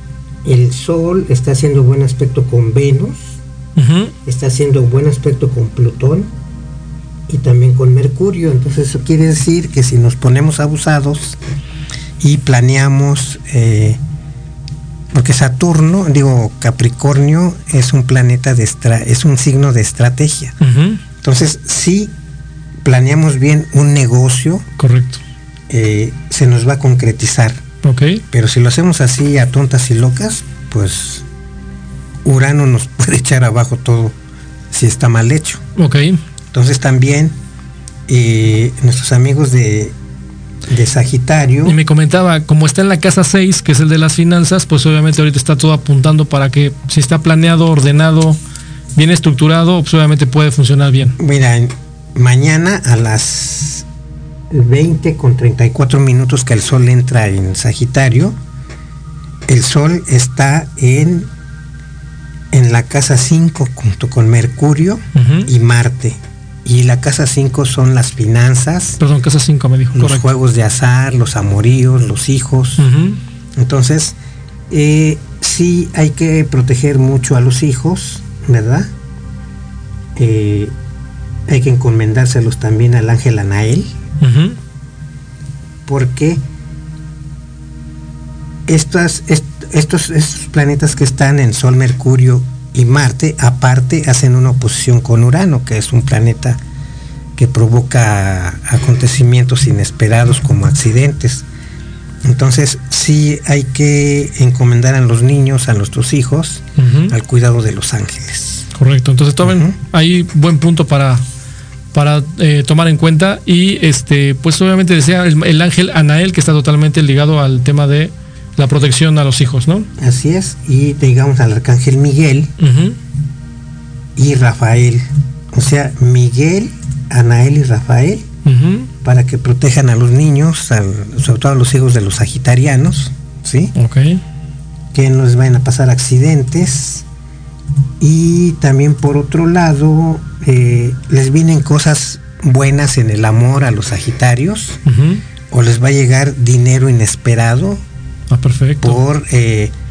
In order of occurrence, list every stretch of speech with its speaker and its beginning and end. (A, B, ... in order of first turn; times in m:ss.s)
0:00.4-0:03.3 A
0:03.8-0:04.2 B
0:04.3-0:06.3 A
0:07.3-0:11.4 A
0:12.2-0:14.0 A
0:15.1-0:20.6 A
0:20.6-0:21.0 B
0:21.2-0:22.1 A
0:22.8-0:24.6 A
0:24.8-0:25.2 B
0:25.7-0:27.6 A
0:27.8-0:28.2 B
0:28.3-0:31.2 A
0:32.2-0:34.2 A
0:34.7-0:35.6 A
0:35.8-0:36.2 B
0:36.5-0:37.4 A
0:38.1-0:39.9 A
0:40.7-0:41.8 A
0:41.6-0:48.4 B
0:49.0-0:51.2 B
0:51.2-0:53.9 A
0:54.5-0:58.4 A
0:59.5-1:01.3 A
1:02.5-1:09.0 A
1:05.2-1:05.5 B
1:09.0-1:10.3 B
1:09.9-1:12.8 A
1:12.8-1:13.2 B
1:13.6-1:14.2 A
1:14.7-1:18.9 A
1:20.2-1:20.7 A
1:21.5-1:23.9 A
1:24.2-1:24.6 B
1:25.9-1:26.4 A
1:28.7-1:36.6 A
1:37.4-1:41.4 A
1:42.2-1:48.7 A
1:46.8-1:47.1 B
1:48.7-1:51.2 B
1:49.4-1:49.7 A
1:51.9-1:59.9 B
2:00.0-2:02.5 A
2:02.6-2:03.0 B
2:04.2-2:08.3 A
2:08.4-2:08.9 B
2:09.0-2:13.7 A
2:13.8-2:14.2 B
2:14.9-2:17.0 A
2:18.0-2:24.8 A
2:24.9-2:25.2 B
2:25.5-2:27.8 A
2:28.3-2:29.0 B
2:28.8-2:29.7 A